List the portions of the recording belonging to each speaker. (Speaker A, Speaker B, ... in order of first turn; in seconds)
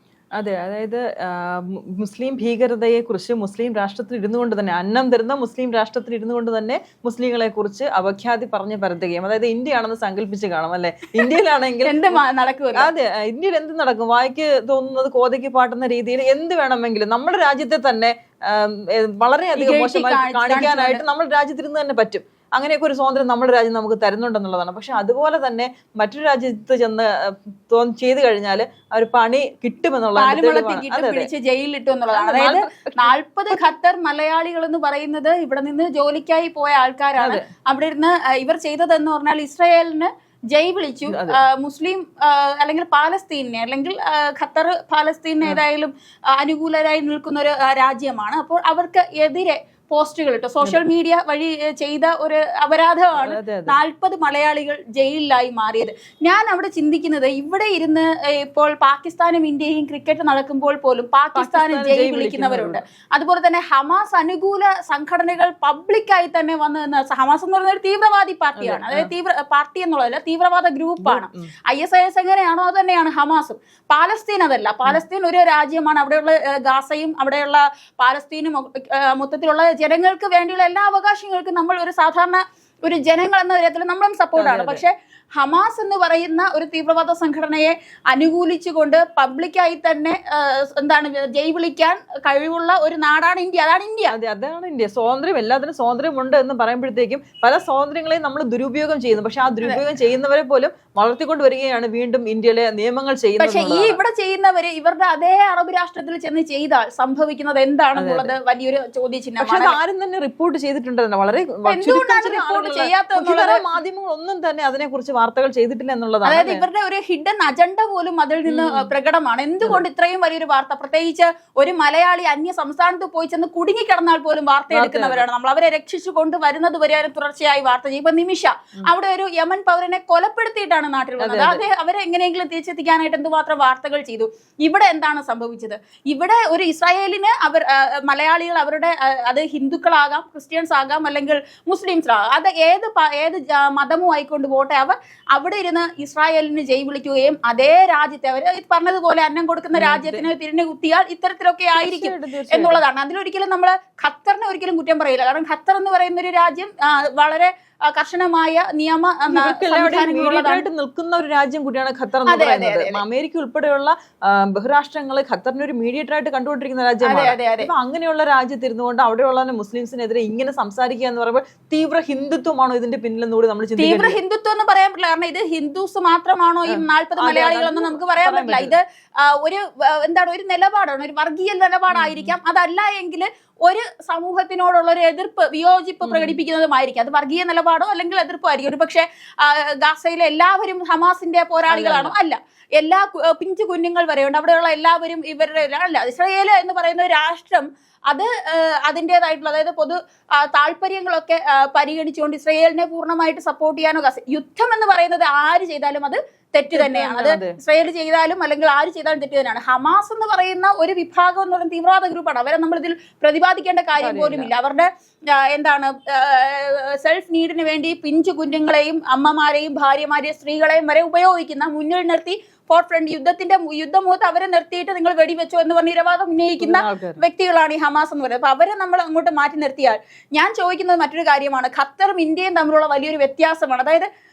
Speaker A: 0.4-12.2, 12.7-31.3, 32.1-33.6, 37.2-37.4, 41.1-41.4, 53.2-53.8, 61.3-62.8, 68.6-69.1, 71.0-71.5, 84.3-84.8, 94.1-104.0, 108.0-108.3, 109.4-116.6, 118.5-118.9, 124.7-125.2, 131.2-131.6, 149.8-150.3, 151.8-152.8, 159.3-174.2, 176.7-178.8, 181.9-182.3, 186.0-186.4, 191.7-192.1, 206.7-207.6, 214.0-214.5, 226.6-227.2
Speaker B: 11.8-12.9, 19.5-21.0, 30.1-94.1, 103.4-109.7, 111.7-113.6, 116.2-160.6, 162.3-163.0, 167.0-167.7, 173.8-234.1